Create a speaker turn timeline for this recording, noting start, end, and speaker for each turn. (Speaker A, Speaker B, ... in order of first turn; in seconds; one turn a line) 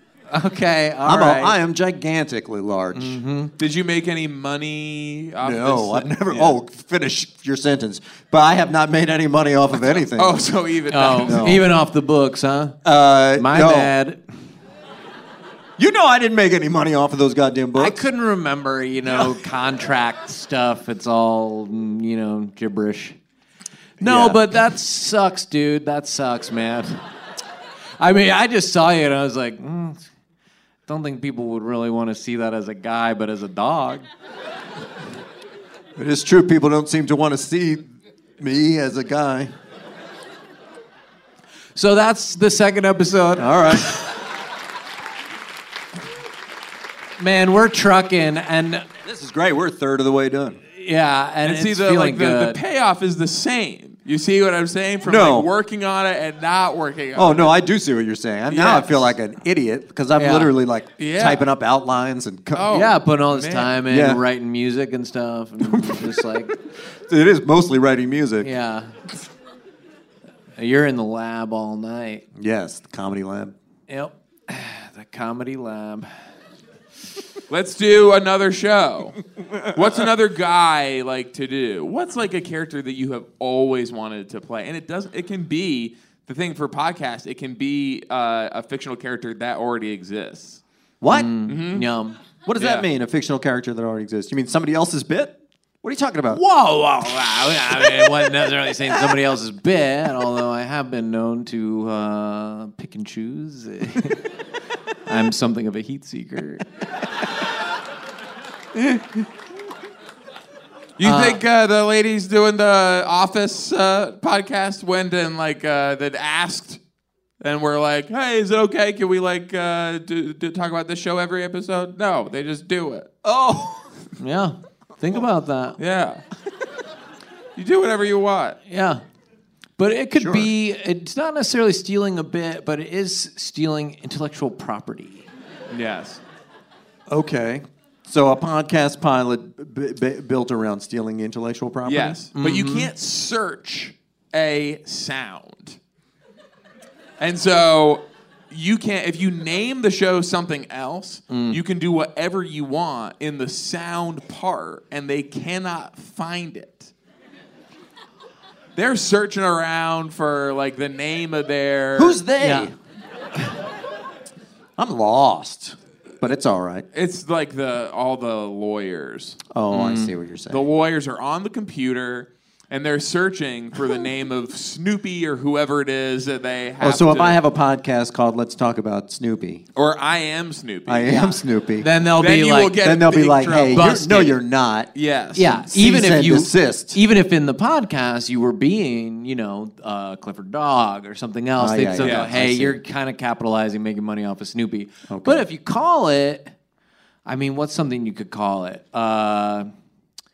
Speaker A: 0.3-1.6
Speaker B: 1.0-3.2
Speaker A: 2.9-3.5
Speaker C: 3.6-6.5
Speaker B: 5.4-10.4
Speaker C: 10.0-11.4
Speaker A: 10.9-12.8
Speaker B: 11.1-11.6
Speaker B: 12.8-13.9
Speaker A: 13.3-14.2
Speaker B: 15.8-18.0
Speaker A: 17.8-23.2
Speaker B: 24.0-24.4
Speaker A: 24.0-27.0
Speaker A: 28.0-30.0
Speaker A: 30.9-34.0
Speaker B: 36.0-37.8
Speaker B: 38.4-39.5
Speaker A: 41.7-44.0
Speaker B: 43.4-43.9
Speaker A: 47.2-48.8
Speaker B: 49.0-50.6
Speaker A: 50.8-52.6
Speaker C: 51.4-57.5
Speaker B: 55.0-55.5
Speaker B: 57.1-62.7
Speaker C: 58.5-58.9
Speaker A: 60.1-60.5
Speaker C: 61.0-61.4
Speaker C: 62.5-63.8
Speaker A: 62.7-66.5
Speaker B: 63.9-64.2
Speaker B: 65.6-66.6
Speaker B: 67.1-68.5
Speaker A: 68.4-68.9
Speaker A: 70.6-72.2
Speaker B: 72.3-73.5
Speaker A: 73.9-76.1
Speaker C: 77.5-90.6
Speaker B: 91.0-91.4
Speaker A: 91.1-92.2
Speaker C: 91.5-91.9
Speaker B: 92.5-96.4
Speaker C: 92.6-92.9
Speaker A: 96.3-104.2
Speaker A: 105.1-106.6
Speaker C: 111.0-116.8
Speaker A: 111.0-111.4
Speaker C: 117.4-123.1
Speaker B: 123.2-123.8
Speaker A: 124.2-125.8
Speaker C: 125.8-126.2
Speaker C: 127.5-128.6
Speaker A: 128.7-129.0
Speaker A: 129.8-135.3
Speaker B: 130.2-130.5
Speaker C: 135.7-136.2
Speaker B: 137.1-142.2
Speaker C: 141.8-145.8
Speaker A: 142.3-142.9
Speaker C: 147.2-156.9
Speaker A: 151.3-151.6
Speaker C: 158.8-162.2
Speaker B: 161.9-162.7
Speaker A: 162.4-162.7
Speaker B: 164.8-166.8
Speaker C: 166.9-169.4
Speaker B: 169.5-170.7
Speaker A: 169.7-170.1
Speaker C: 170.5-177.4
Speaker B: 176.8-179.6
Speaker C: 179.8-181.4
Speaker B: 180.9-181.9
Speaker A: 181.8-182.8
Speaker C: 182.2-184.2
Speaker B: 182.8-184.9
Speaker A: 183.7-184.3
Speaker C: 184.9-185.5
Speaker A: 185.3-196.5
Speaker B: 185.6-187.0
Speaker B: 191.6-192.8
Speaker C: 192.0-192.3
Speaker B: 195.1-195.5
Speaker A: 197.2-199.7